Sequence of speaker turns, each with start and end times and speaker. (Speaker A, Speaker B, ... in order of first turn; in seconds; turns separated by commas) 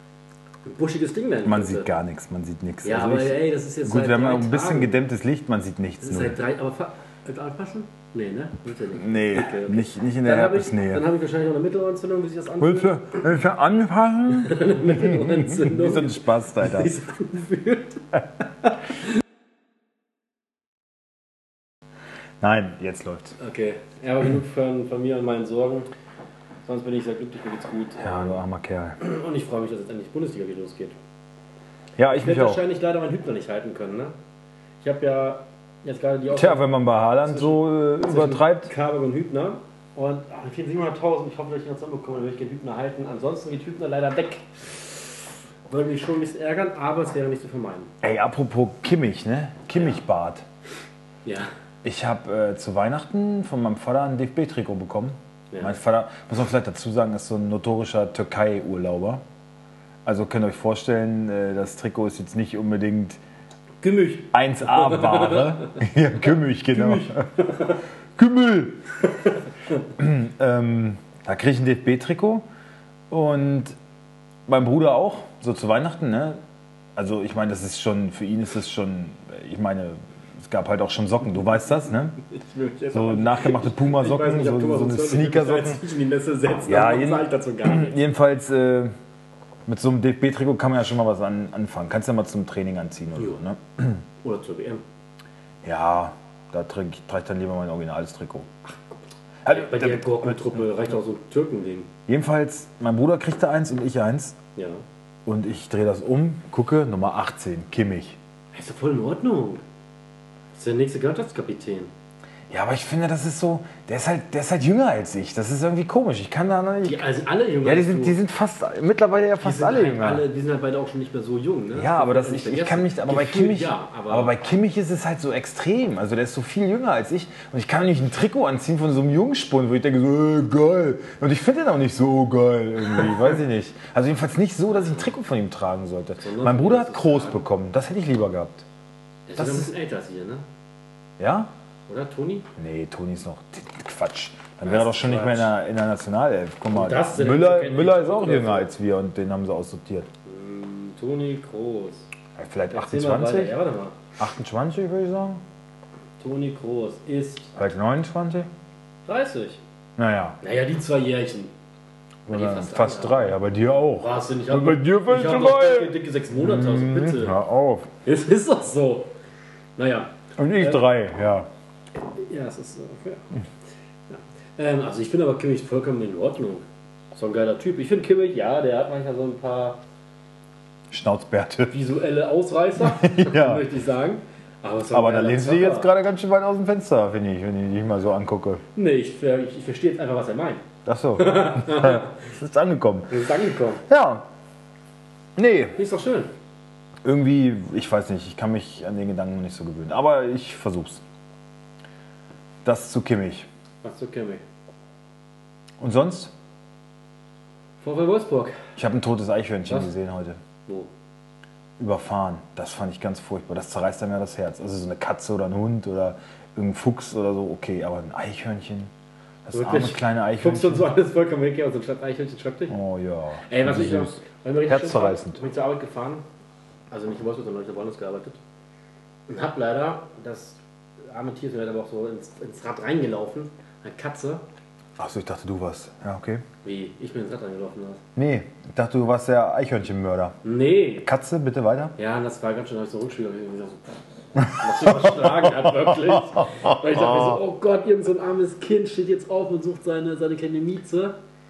Speaker A: 0.6-1.9, Speaker B: 1.4-6.4, Speaker A: 2.8-4.9, Speaker A: 6.0-13.2, Speaker B: 8.9-11.0, Speaker B: 12.6-16.9, Speaker A: 14.3-18.0, Speaker B: 22.4-23.3, Speaker A: 23.4-25.9, Speaker A: 26.6-28.4, Speaker B: 28.0-29.0, Speaker A: 29.0-30.9, Speaker B: 32.0-32.6, Speaker A: 32.1-34.1, Speaker A: 34.8-36.6, Speaker B: 36.3-38.7, Speaker A: 37.2-45.1, Speaker A: 45.7-47.9, Speaker B: 48.0-50.4, Speaker A: 49.7-50.0, Speaker A: 51.2-51.5, Speaker B: 51.8-59.2, Speaker A: 55.5-55.8, Speaker B: 60.0-63.2, Speaker A: 63.8-65.8, Speaker B: 64.3-67.2, Speaker A: 66.7-67.8, Speaker B: 68.2-68.8, Speaker B: 70.0-72.4, Speaker B: 73.1-73.8, Speaker B: 74.5-76.4, Speaker B: 77.0-82.2, Speaker A: 82.2-88.0, Speaker B: 82.9-85.8, Speaker B: 86.7-88.9, Speaker B: 89.7-94.0, Speaker A: 94.2-94.8, Speaker B: 95.6-98.5, Speaker A: 98.7-101.9, Speaker B: 99.4-100.6, Speaker B: 102.1-104.4, Speaker A: 104.5-104.8, Speaker B: 105.2-108.2, Speaker A: 108.5-109.6, Speaker A: 110.5-111.9, Speaker B: 112.5-117.0, Speaker A: 116.8-118.2, Speaker B: 117.6-120.2, Speaker A: 119.4-124.3, Speaker B: 121.7-138.6, Speaker A: 136.2-137.4, Speaker A: 139.3-140.4, Speaker B: 139.3-139.7, Speaker B: 141.2-141.5, Speaker A: 141.9-142.5, Speaker B: 142.6-150.1, Speaker A: 144.6-145.5, Speaker A: 146.7-148.7, Speaker A: 150.2-152.1, Speaker B: 152.4-153.5, Speaker A: 152.7-154.0, Speaker B: 154.2-155.4, Speaker A: 156.2-157.5, Speaker B: 157.6-158.5, Speaker A: 159.1-159.6, Speaker B: 160.0-160.4, Speaker A: 160.4-161.5, Speaker B: 162.3-167.9, Speaker A: 162.3-167.4, Speaker A: 168.0-169.1, Speaker A: 169.8-170.8, Speaker B: 170.4-171.5, Speaker A: 172.0-173.2, Speaker A: 174.1-179.8, Speaker B: 180.9-181.7, Speaker A: 181.7-185.9, Speaker B: 182.8-183.7, Speaker B: 184.9-188.6, Speaker A: 188.7-190.6, Speaker B: 190.8-193.1, Speaker A: 191.2-192.2, Speaker A: 193.1-193.8, Speaker B: 193.9-194.2, Speaker B: 195.3-195.8, Speaker A: 195.8-196.3, Speaker B: 197.0-201.0, Speaker B: 202.6-203.5, Speaker A: 203.8-204.4, Speaker B: 205.8-206.3, Speaker A: 207.8-208.6, Speaker B: 208.8-210.4, Speaker A: 210.7-210.9, Speaker B: 211.8-218.9, Speaker B: 219.4-220.9, Speaker A: 219.5-222.8, Speaker B: 222.7-225.4, Speaker A: 223.5-226.2, Speaker A: 226.9-228.4, Speaker A: 229.3-234.4, Speaker B: 235.0-236.4, Speaker A: 236.6-238.0, Speaker B: 238.2-240.4, Speaker A: 240.4-241.1, Speaker B: 241.0-241.9, Speaker A: 242.0-243.8, Speaker A: 244.4-251.2, Speaker B: 244.6-245.9, Speaker B: 246.4-247.4